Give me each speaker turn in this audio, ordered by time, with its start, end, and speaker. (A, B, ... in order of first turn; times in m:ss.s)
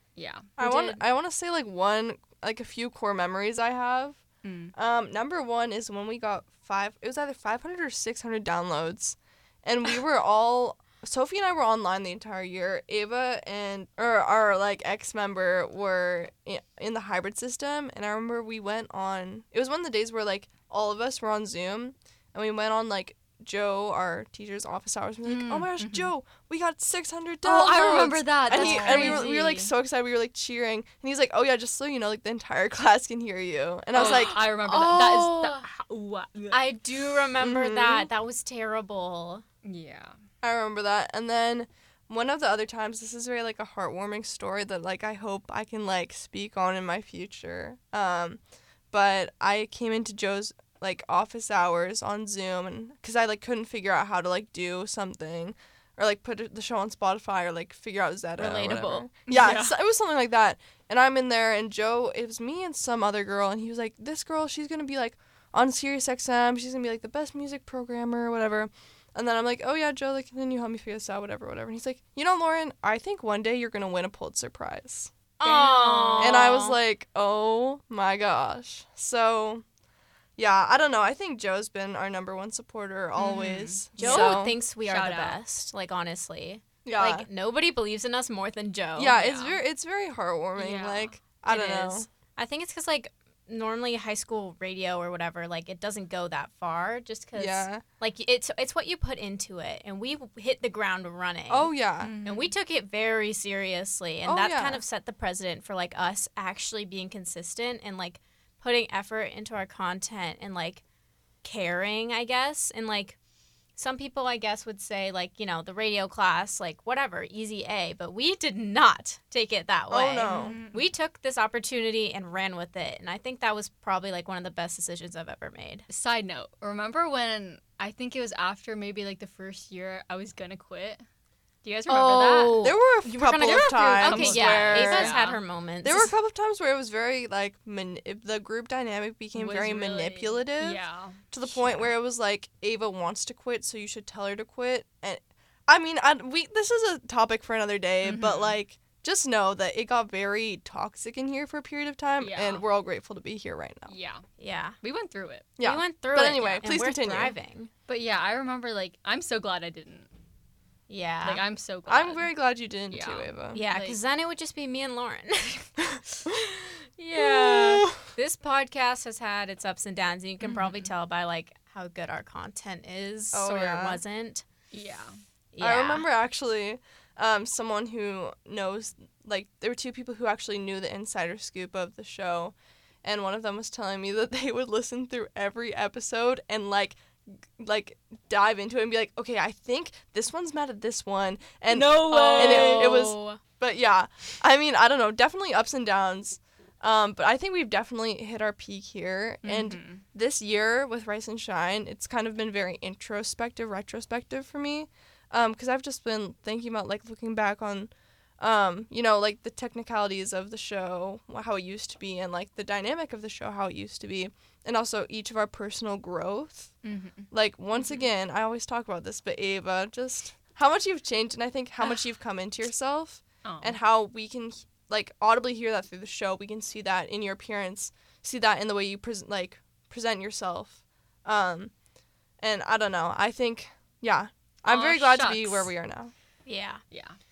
0:00.2-0:00.5 A
0:00.6-0:01.0 B
0:00.6-0:04.2 C
0:04.4-0:04.7 A
0:04.7-0:34.4 C
0:25.2-0:26.1 A
0:27.4-0:29.7 A
0:28.5-0:29.3 B
0:33.9-0:36.6 A
0:34.0-0:35.7 B
0:36.5-0:39.4 B
0:37.4-0:38.1 C
0:39.6-0:40.2 A
0:40.4-1:15.1 C
0:58.4-0:59.1 B
0:59.3-0:59.7 A
1:15.4-1:16.8 B
1:15.4-1:16.4 A
1:16.2-1:19.6 C
1:20.4-1:24.6 C
1:23.2-1:25.4 A
1:24.0-1:29.6 B
1:26.8-1:27.3 C
1:29.0-1:32.1 C
1:30.6-1:31.6 A
1:31.5-1:41.7 B
1:37.4-1:37.8 C
1:41.5-1:42.1 C
1:42.0-1:42.5 A
1:42.2-1:50.8 B
1:44.2-1:44.8 C
1:51.4-1:53.2 B
1:53.8-2:05.8 B
1:59.9-2:00.6 C
2:00.3-2:00.9 A
2:05.9-2:11.0 A
2:11.6-2:12.7 A
2:11.9-2:16.1 B
2:12.6-2:15.1 C
2:13.4-2:15.4 A
2:15.8-2:33.9 C
2:19.3-2:21.2 A
2:21.4-2:21.9 B
2:28.0-2:28.5 A
2:32.2-2:32.6 A
2:33.9-2:34.2 A
2:34.4-2:34.8 B
2:34.8-2:35.5 A
2:35.6-2:37.3 C
2:35.6-2:37.7 B
2:37.9-2:40.1 A
2:40.9-2:41.4 B
2:41.2-2:42.3 A
2:41.9-2:43.6 C
2:42.9-2:44.0 A
2:43.5-2:45.7 B
2:46.6-2:54.4 B
2:47.2-2:48.0 C
2:50.4-2:50.9 A
2:53.3-2:54.0 C
2:54.7-2:55.2 A
2:55.5-2:56.0 B
2:55.6-3:36.8 C
3:11.7-3:13.1 A
3:12.1-3:13.4 B
3:19.4-3:20.0 A
3:36.8-3:37.3 A
3:37.3-3:51.8 C
3:43.4-3:43.8 A
3:52.4-3:56.1 C
3:54.6-3:55.7 A
3:56.4-3:56.8 B
3:56.9-3:57.2 A